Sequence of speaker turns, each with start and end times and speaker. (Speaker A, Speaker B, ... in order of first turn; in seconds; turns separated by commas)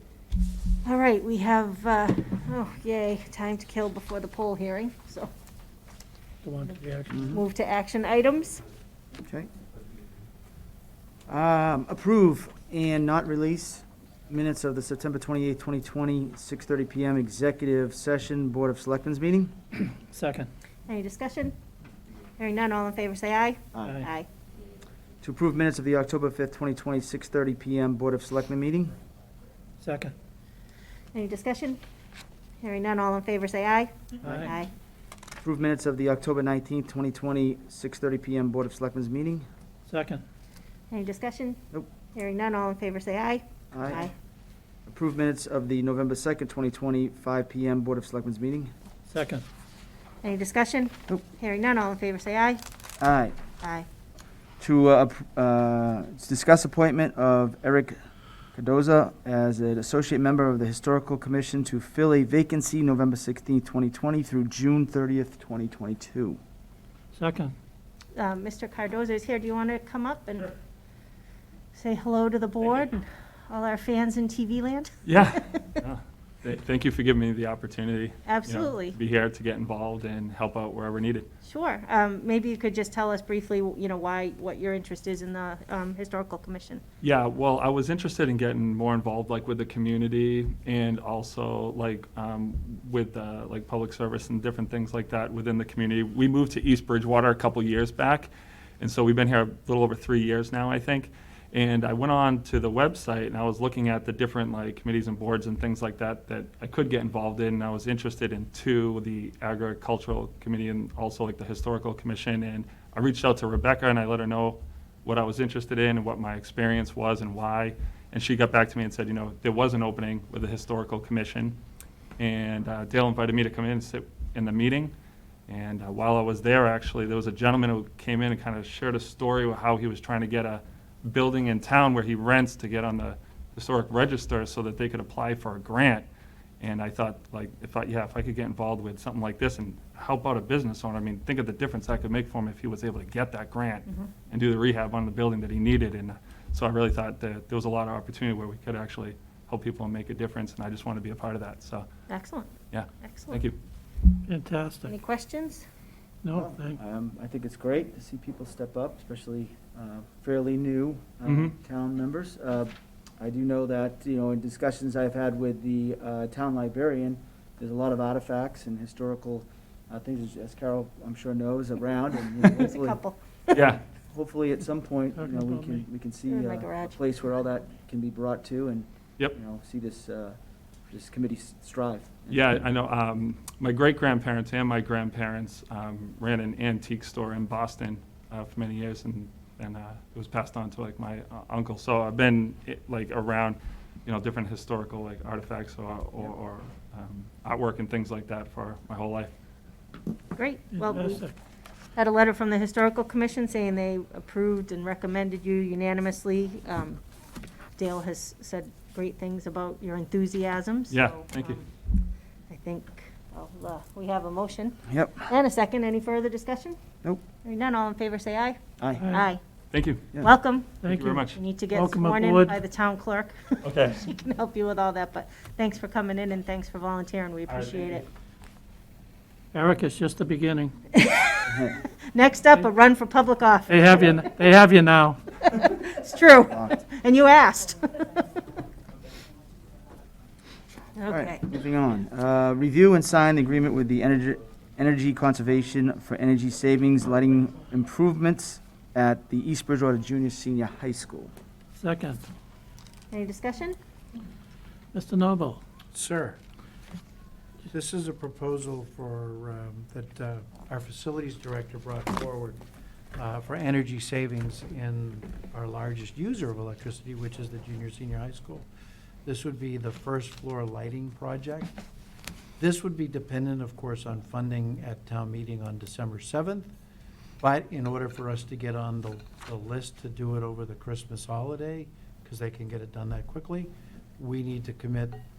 Speaker A: 0.8-5.3, Speaker B: 6.4-7.2, Speaker C: 7.1-7.4, Speaker A: 7.2-8.6, Speaker C: 9.2-9.5, Speaker C: 11.3-19.6, Speaker B: 20.0-20.5, Speaker A: 20.9-21.6, Speaker A: 22.4-24.3, Speaker C: 23.7-24.0, Speaker C: 25.2-28.9, Speaker B: 29.8-30.1, Speaker A: 31.1-31.8, Speaker A: 32.6-34.7, Speaker B: 34.2-34.5, Speaker C: 34.2-34.5, Speaker C: 35.4-39.5, Speaker B: 39.9-40.2, Speaker A: 40.9-41.6, Speaker A: 42.1-44.1, Speaker C: 43.7-44.0, Speaker C: 44.9-48.7, Speaker B: 49.1-49.4, Speaker A: 50.2-52.6, Speaker C: 53.0-53.4, Speaker A: 53.6-53.9, Speaker C: 54.6-58.0, Speaker C: 58.5-66.4, Speaker B: 67.1-67.5, Speaker A: 68.1-70.5, Speaker A: 71.7-75.8, Speaker D: 75.0-81.3, Speaker A: 78.2-79.0, Speaker A: 81.4-86.8, Speaker D: 87.0-121.6, Speaker D: 122.2-124.9, Speaker D: 125.5-136.1, Speaker D: 136.6-151.9, Speaker A: 152.1-153.4, Speaker D: 152.7-153.6, Speaker B: 154.2-154.9, Speaker A: 154.9-155.6, Speaker B: 156.2-156.8, Speaker C: 156.3-173.0, Speaker D: 161.2-161.5, Speaker A: 172.5-173.6, Speaker D: 173.5-173.8, Speaker C: 173.6-180.4, Speaker B: 175.2-175.8, Speaker A: 176.3-177.0, Speaker C: 180.9-182.5, Speaker D: 182.3-199.3, Speaker A: 200.3-201.2, Speaker B: 200.7-201.3, Speaker A: 201.9-207.0, Speaker A: 207.8-211.7, Speaker D: 210.9-211.6, Speaker A: 212.5-216.8, Speaker C: 214.9-215.2, Speaker A: 217.4-219.4, Speaker C: 218.8-219.0, Speaker B: 219.0-219.3, Speaker D: 219.7-220.0, Speaker A: 220.2-220.8, Speaker D: 220.8-221.3, Speaker B: 220.8-222.6, Speaker A: 221.3-228.0, Speaker D: 223.6-224.0, Speaker D: 227.5-228.0, Speaker B: 229.5-230.7, Speaker A: 230.9-234.1, Speaker B: 233.7-235.2, Speaker A: 235.4-238.3, Speaker A: 240.9-241.4, Speaker C: 241.1-251.3, Speaker B: 251.8-252.2, Speaker A: 253.1-253.8, Speaker B: 254.9-255.6, Speaker E: 255.9-256.4, Speaker E: 257.7-262.6, Speaker E: 263.1-268.7, Speaker E: 269.2-271.8, Speaker E: 272.6-276.7, Speaker E: 277.4-285.2